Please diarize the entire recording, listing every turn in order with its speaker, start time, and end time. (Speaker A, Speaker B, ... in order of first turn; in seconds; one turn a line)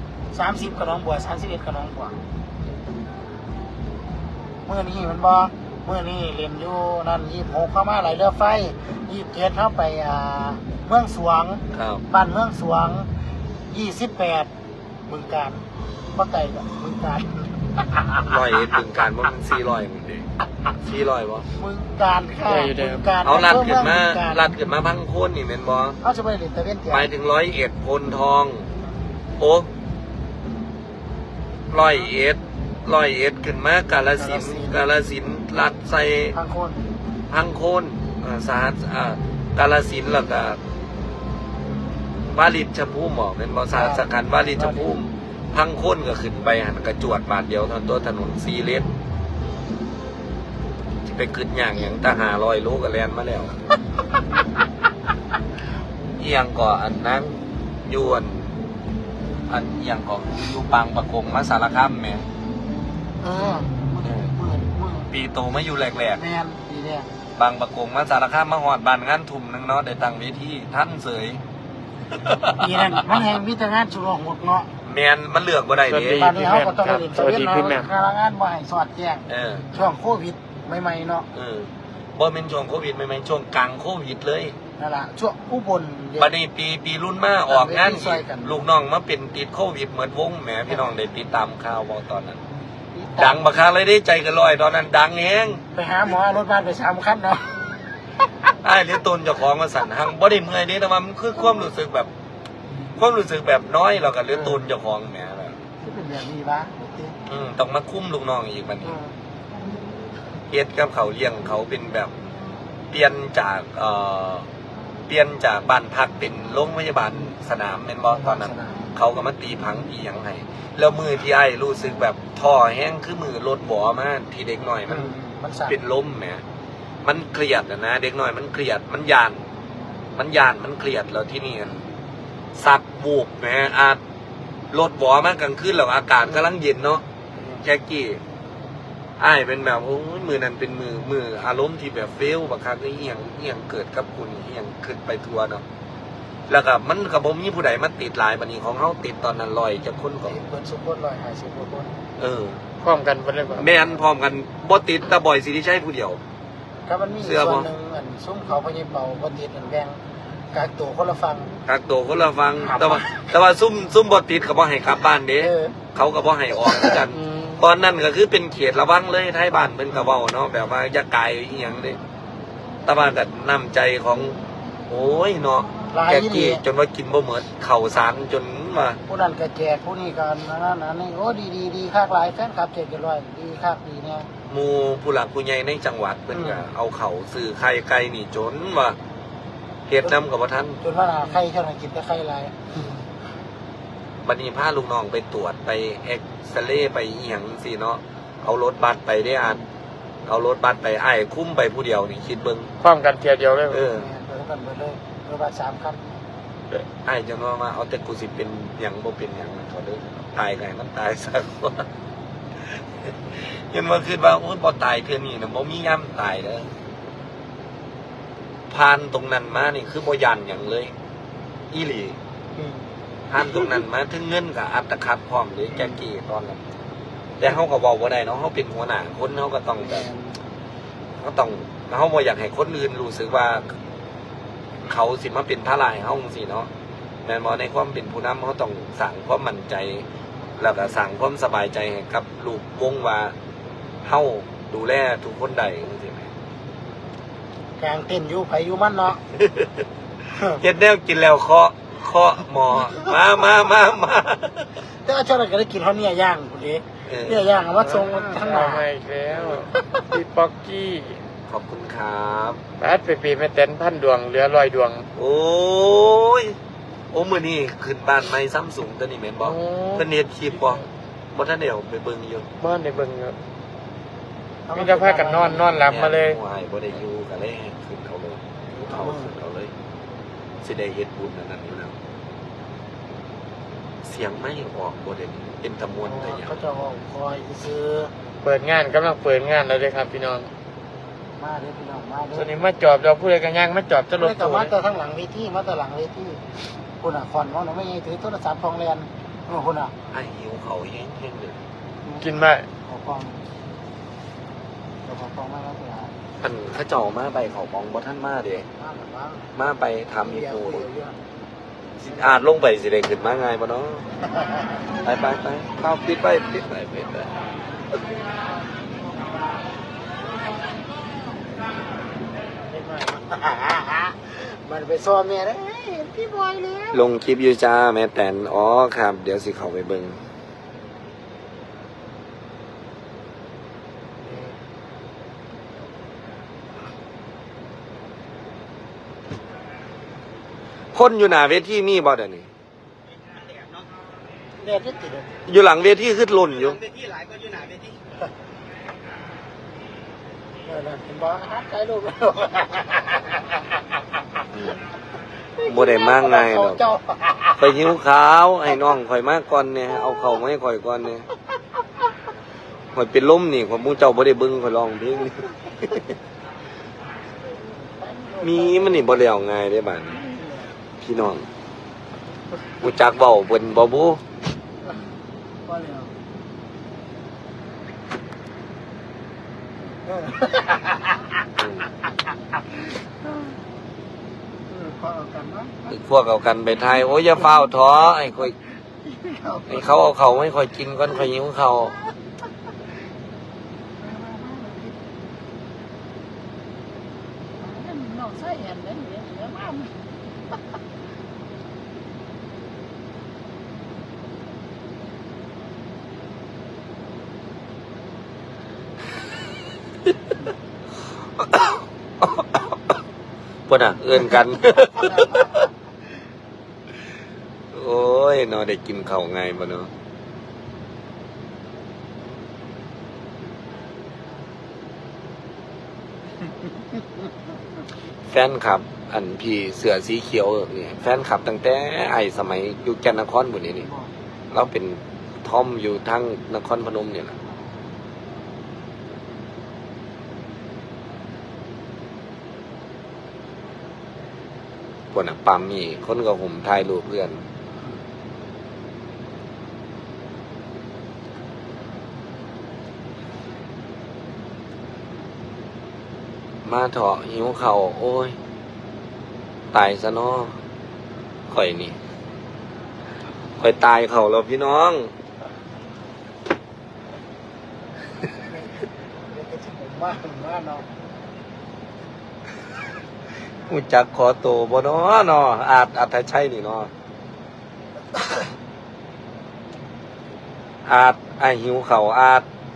Speaker A: 0.3-2.2
Speaker A: 4.7-13.1
Speaker B: 11.7-12.1
Speaker A: 13.7-14.5
Speaker A: 15.1-18.3
Speaker B: 18.2-20.3
Speaker B: 20.8-21.5
Speaker A: 21.6-24.4
Speaker C: 22.4-23.1
Speaker B: 23.2-26.0
Speaker A: 26.0-27.1
Speaker B: 26.9-28.7
Speaker B: 29.4-29.7
Speaker B: 31.7-36.4
Speaker A: 34.2-34.8
Speaker A: 36.4-36.9
Speaker B: 37.3-40.6
Speaker B: 42.3-48.9
Speaker A: 43.7-45.0
Speaker B: 51.1-53.6
Speaker B: 56.2-58.6
Speaker B: 59.5-62.3
Speaker A: 63.2-65.1
Speaker B: 64.0-64.3
Speaker B: 65.1-66.2
Speaker A: 66.2-67.1
Speaker B: 67.4-71.4
Speaker B: 72.1-72.6
Speaker A: 72.6-74.7
Speaker B: 74.8-76.3
Speaker C: 75.9-77.9
Speaker A: 76.1-81.3
Speaker B: 79.3-79.7
Speaker B: 81.3-84.6
Speaker A: 84.8-86.3
Speaker B: 86.2-92.4
Speaker A: 87.5-88.6
Speaker A: 92.9-93.4
Speaker B: 93.2-95.6
Speaker A: 95.7-97.6
Speaker B: 98.6-102.1
Speaker B: 103.0-105.6
Speaker A: 105.8-107.2
Speaker B: 107.3-109.0
Speaker A: 108.9-109.1
Speaker B: 110.5-112.1
Speaker B: 112.9-114.5
Speaker B: 115.1-125.1
Speaker A: 118.1-118.8
Speaker A: 124.9-125.8
Speaker B: 125.7-126.4
Speaker B: 127.0-129.4
Speaker B: 130.2-131.8
Speaker B: 132.6-134.0
Speaker B: 134.7-137.0
Speaker B: 137.6-138.2
Speaker B: 139.2-145.6
Speaker B: 146.5-150.4
Speaker A: 150.3-152.0
Speaker B: 152.2-152.6
Speaker C: 152.8-153.7
Speaker B: 153.6-156.2
Speaker A: 156.9-161.5
Speaker B: 157.2-157.7
Speaker B: 161.7-172.0
Speaker A: 162.7-163.2
Speaker A: 165.4-165.8
Speaker C: 167.1-167.6
Speaker B: 172.9-179.0
Speaker A: 175.9-176.6
Speaker A: 179.1-184.3
Speaker B: 184.5-189.0
Speaker B: 189.9-190.8
Speaker A: 190.8-192.7
Speaker B: 194.2-199.6
Speaker B: 200.3-202.7
Speaker C: 202.8-203.8
Speaker B: 203.7-204.1
Speaker A: 203.9-206.1
Speaker B: 206.7-211.9
Speaker B: 212.7-216.7
Speaker B: 218.7-221.0
Speaker B: 221.7-222.2
Speaker A: 222.6-222.9
Speaker B: 223.3-226.6
Speaker B: 227.4-230.1
Speaker A: 229.8-230.4
Speaker B: 231.2-233.8
Speaker B: 234.8-236.7
Speaker B: 237.2-240.1
Speaker B: 240.6-243.3
Speaker B: 244.0-246.3
Speaker A: 247.8-249.2
Speaker B: 249.3-249.8
Speaker B: 250.4-254.7
Speaker A: 254.9-258.9
Speaker B: 257.1-257.4
Speaker C: 257.8-261.2
Speaker B: 261.5-262.6
Speaker C: 262.8-265.1
Speaker B: 265.2-266.6
Speaker B: 267.1-270.8
Speaker C: 269.4-270.1
Speaker B: 271.3-272.5
Speaker C: 272.6-273.4
Speaker A: 274.7-275.7
Speaker C: 274.7-276.4
Speaker B: 275.9-279.7
Speaker A: 278.8-279.3
Speaker B: 280.6-282.0
Speaker B: 284.0-286.6
Speaker A: 286.1-288.1
Speaker C: 288.4-290.5
Speaker A: 291.4-292.5
Speaker C: 292.3-294.7
Speaker A: 294.2-296.5
Speaker A: 297.0-299.9
Speaker B: 300.1-301.6
Speaker A: 302.1-303.4
Speaker C: 302.2-302.7
Speaker A: 305.1-306.1
Speaker B: 306.4-308.7
Speaker A: 308.8-309.4
Speaker B: 309.6-310.9
Speaker A: 310.2-311.2
Speaker B: 312.0-314.1
Speaker B: 315.0-317.3
Speaker A: 322.7-327.0
Speaker B: 326.9-330.2
Speaker A: 334.3-334.6
Speaker B: 340.9-342.5
Speaker A: 344.6-345.3
Speaker B: 345.5-346.9
Speaker A: 350.6-353.6
Speaker B: 354.5-354.8
Speaker A: 355.5-357.6
Speaker B: 355.7-356.8
Speaker B: 357.6-361.3
Speaker B: 362.9-366.0
Speaker A: 367.5-369.2
Speaker B: 368.4-370.2
Speaker A: 370.3-370.7
Speaker B: 371.0-371.5
Speaker B: 372.8-374.2
Speaker A: 375.7-376.1
Speaker A: 380.1-380.9
Speaker B: 381.6-381.9
Speaker A: 384.7-385.9
Speaker B: 385.9-388.5
Speaker A: 389.1-389.9
Speaker B: 389.7-392.0
Speaker A: 394.0-394.9
Speaker A: 397.6-399.9
Speaker B: 411.4-412.7
Speaker B: 413.7-415.6
Speaker B: 417.7-419.9
Speaker B: 428.3-433.9
Speaker B: 434.5-437.4
Speaker B: 445.1-447.4
Speaker B: 456.6-458.4
Speaker B: 459.7-460.6
Speaker B: 461.5-462.0
Speaker B: 463.6-465.1
Speaker A: 469.3-470.9
Speaker B: 473.7-476.9
Speaker B: 480.9-482.5